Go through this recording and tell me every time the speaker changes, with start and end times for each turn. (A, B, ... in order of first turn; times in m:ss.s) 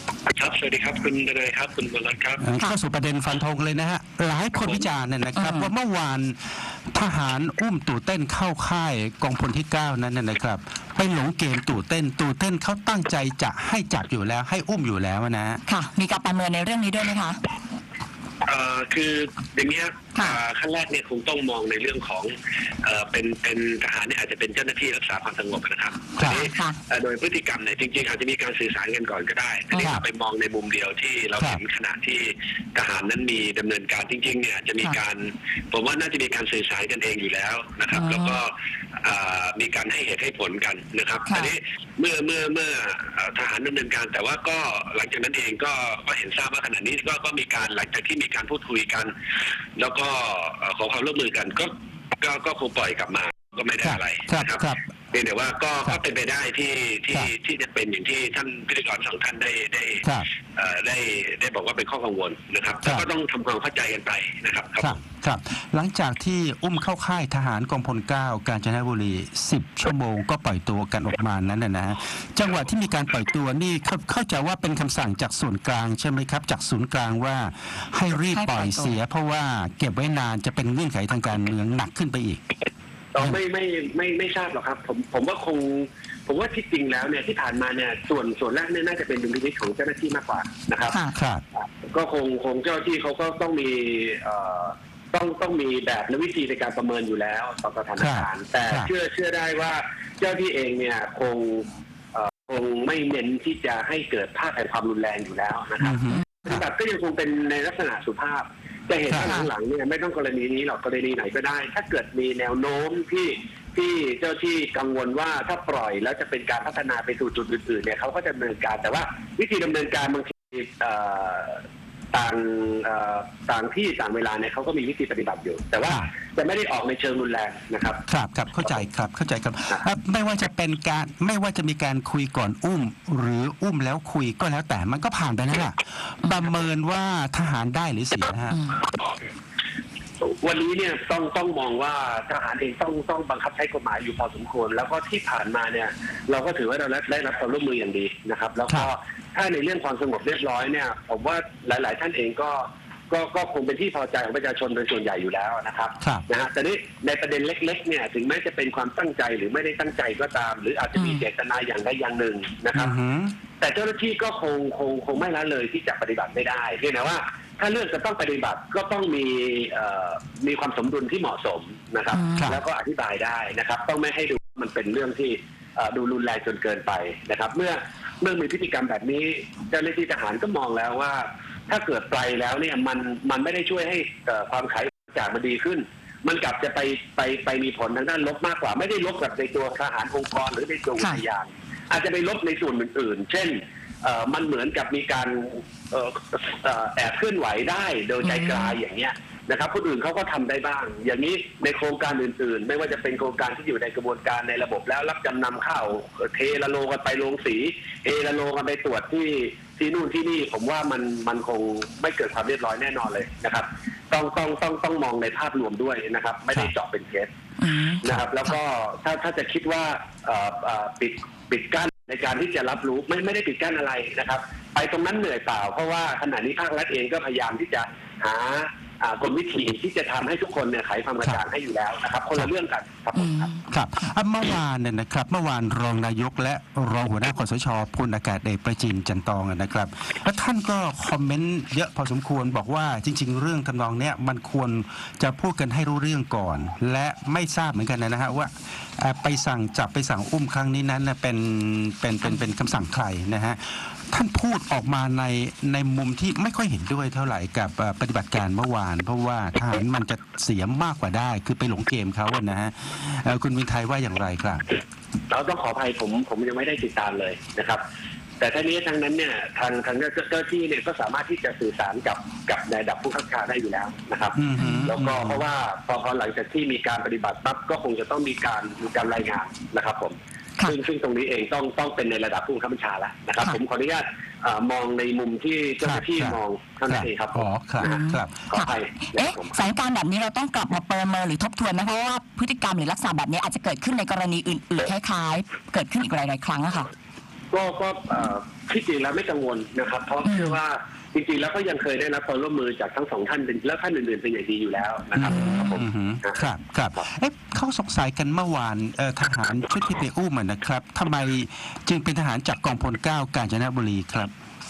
0:00.3-0:02.4 A
0:02.4-0:15.6 B
0:05.4-0:05.7 C
0:15.7-0:17.4 C
0:18.5-0:38.5 A
0:26.3-0:26.8 C
0:37.9-0:38.4 C
0:39.0-0:49.1 A
0:41.3-0:41.6 C
0:49.8-1:05.0 A
0:53.8-0:54.8 B
1:04.8-1:22.4 B
1:18.1-1:19.0 C
1:23.1-1:31.0 A
1:30.9-1:31.1 C
1:31.1-1:31.4 B
1:31.6-2:08.0 A
1:38.0-1:38.9 B
1:45.8-1:46.6 B
1:49.2-1:49.5 C
2:08.1-2:18.6 B
2:18.5-2:18.9 C
2:20.2-2:42.9 A
2:41.0-2:41.2 C
2:42.7-2:43.4 B
2:43.6-3:37.3 A
2:52.1-2:52.5 C
3:18.2-3:18.8 C
3:37.6-3:38.6 C
3:38.0-3:53.5 A
3:53.2-3:54.1 C
3:53.7-4:24.6 B
4:25.3-4:27.8 A
4:28.4-4:49.6 A
4:34.4-4:35.4 B
4:34.6-4:34.9 C
4:45.8-4:46.4 B
4:46.9-4:48.5 B
4:47.8-4:56.9 C
4:57.5-5:07.1 A
5:00.2-5:00.6 C
5:05.2-5:14.3 B
5:05.2-5:05.8 C